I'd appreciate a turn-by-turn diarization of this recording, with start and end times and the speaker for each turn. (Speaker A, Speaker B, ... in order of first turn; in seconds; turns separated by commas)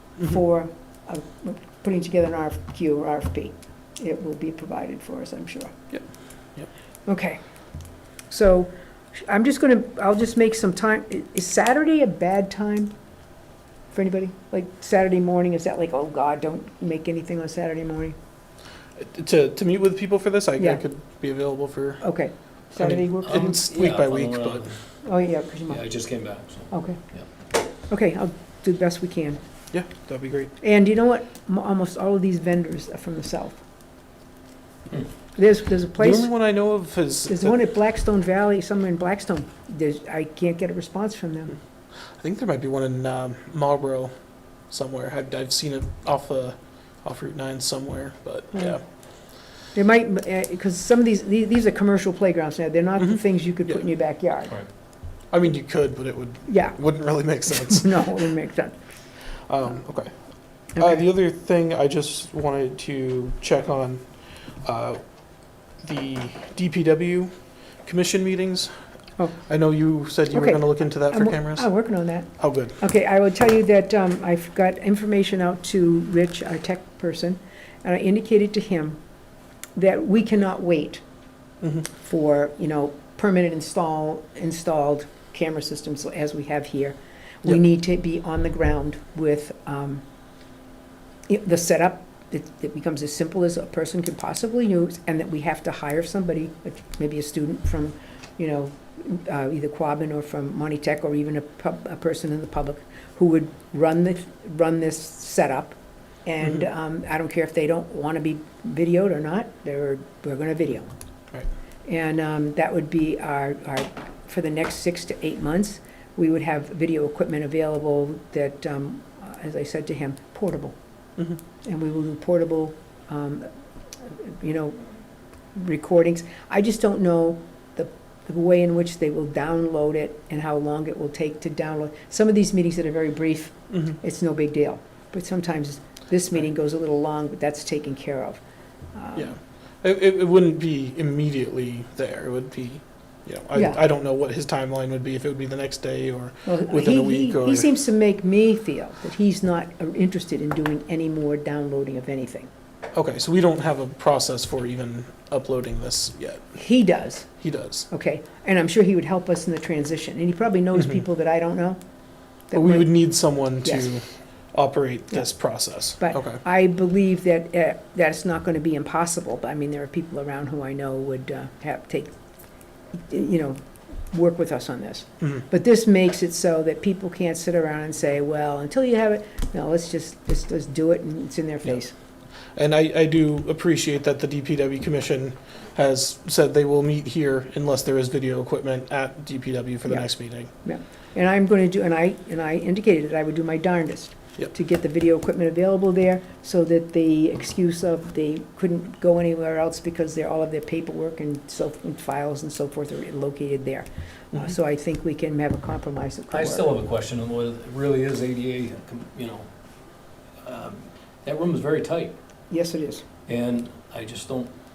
Speaker A: 0.2-5.7, Speaker A: 7.1-7.4, Speaker A: 8.3-12.9, Speaker A: 13.9-18.2, Speaker B: 19.0-22.0, Speaker A: 22.0-23.6, Speaker B: 22.7-24.7, Speaker C: 23.2-24.8, Speaker A: 25.0-25.8, Speaker C: 25.7-27.3, Speaker A: 26.7-27.0, Speaker A: 27.9-29.4, Speaker B: 29.7-30.5, Speaker A: 30.6-33.6, Speaker A: 35.4-36.3, Speaker B: 36.0-37.6, Speaker A: 37.3-41.6, Speaker B: 42.2-44.1, Speaker B: 44.7-48.8, Speaker A: 48.5-54.5, Speaker B: 55.3-58.3, Speaker A: 56.5-58.8, Speaker B: 59.5-65.0, Speaker A: 60.8-61.0, Speaker B: 65.7-68.8, Speaker B: 69.4-72.8, Speaker A: 70.3-79.0, Speaker A: 79.8-81.0, Speaker A: 81.9-90.0, Speaker A: 91.3-110.9, Speaker A: 111.9-120.8, Speaker A: 121.6-123.5, Speaker A: 124.0-124.9, Speaker A: 125.5-138.4, Speaker A: 138.9-139.3, Speaker B: 139.2-147.7, Speaker A: 146.4-152.5, Speaker B: 152.9-156.6, Speaker A: 156.6-157.3, Speaker B: 157.4-157.9, Speaker A: 157.9-161.8, Speaker A: 162.5-162.9, Speaker B: 162.5-166.4, Speaker A: 166.0-172.1, Speaker A: 172.9-173.6, Speaker A: 174.1-181.9, Speaker B: 182.6-190.5, Speaker A: 189.9-190.1, Speaker A: 190.6-206.7, Speaker C: 206.3-209.5, Speaker C: 210.4-212.1, Speaker A: 212.5-213.0, Speaker C: 213.3-214.5